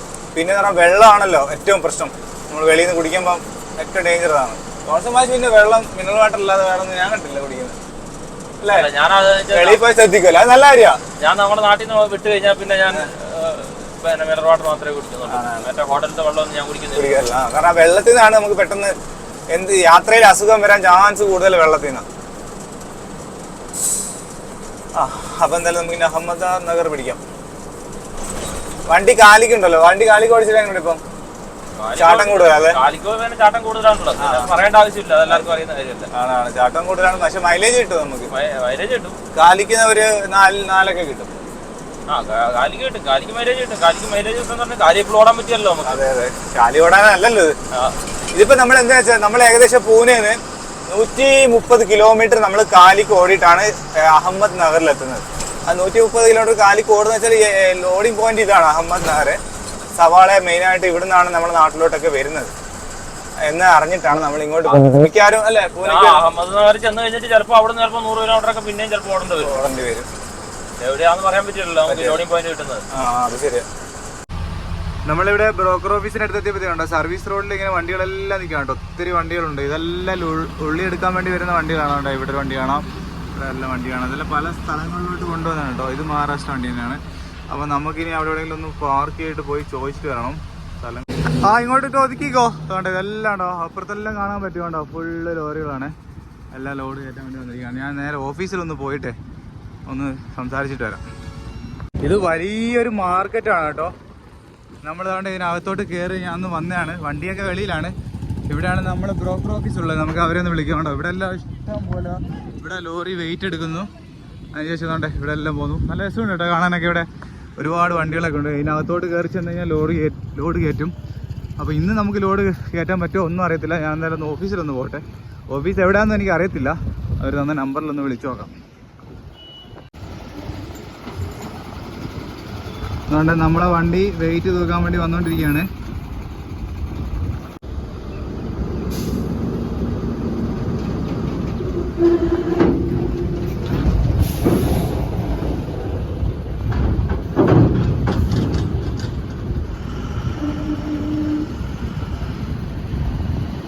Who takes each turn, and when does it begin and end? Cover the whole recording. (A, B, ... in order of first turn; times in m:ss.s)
0:00.3-0:07.8 A
0:08.6-0:08.9 A
0:08.7-0:09.8 B
0:09.5-0:11.0 A
0:11.2-0:17.2 B
0:15.2-0:15.7 A
0:16.9-0:18.9 A
0:19.5-0:22.0 A
0:24.9-0:27.2 A
0:28.9-0:31.0 A
0:31.8-0:36.1 B
0:32.0-0:32.8 A
0:34.2-0:34.5 A
0:36.1-0:38.3 A
0:38.3-0:39.2 B
0:39.3-0:41.3 A
0:42.1-0:46.0 B
0:45.8-0:47.6 A
0:48.3-0:59.4 A
0:59.9-1:02.5 A
1:03.4-1:06.2 A
1:05.8-1:09.5 B
1:09.4-1:10.1 A
1:10.8-1:12.8 B
1:11.9-1:12.2 A
1:12.9-1:13.6 A
1:15.0-1:22.8 A
1:23.4-1:35.9 A
1:36.5-1:39.1 A
1:39.9-1:41.0 A
1:42.0-1:43.9 A
1:44.8-1:47.9 A
1:48.5-1:53.9 A
1:54.5-1:57.1 A
1:57.6-2:00.9 A
2:01.6-2:08.6 A
2:13.1-2:15.7 A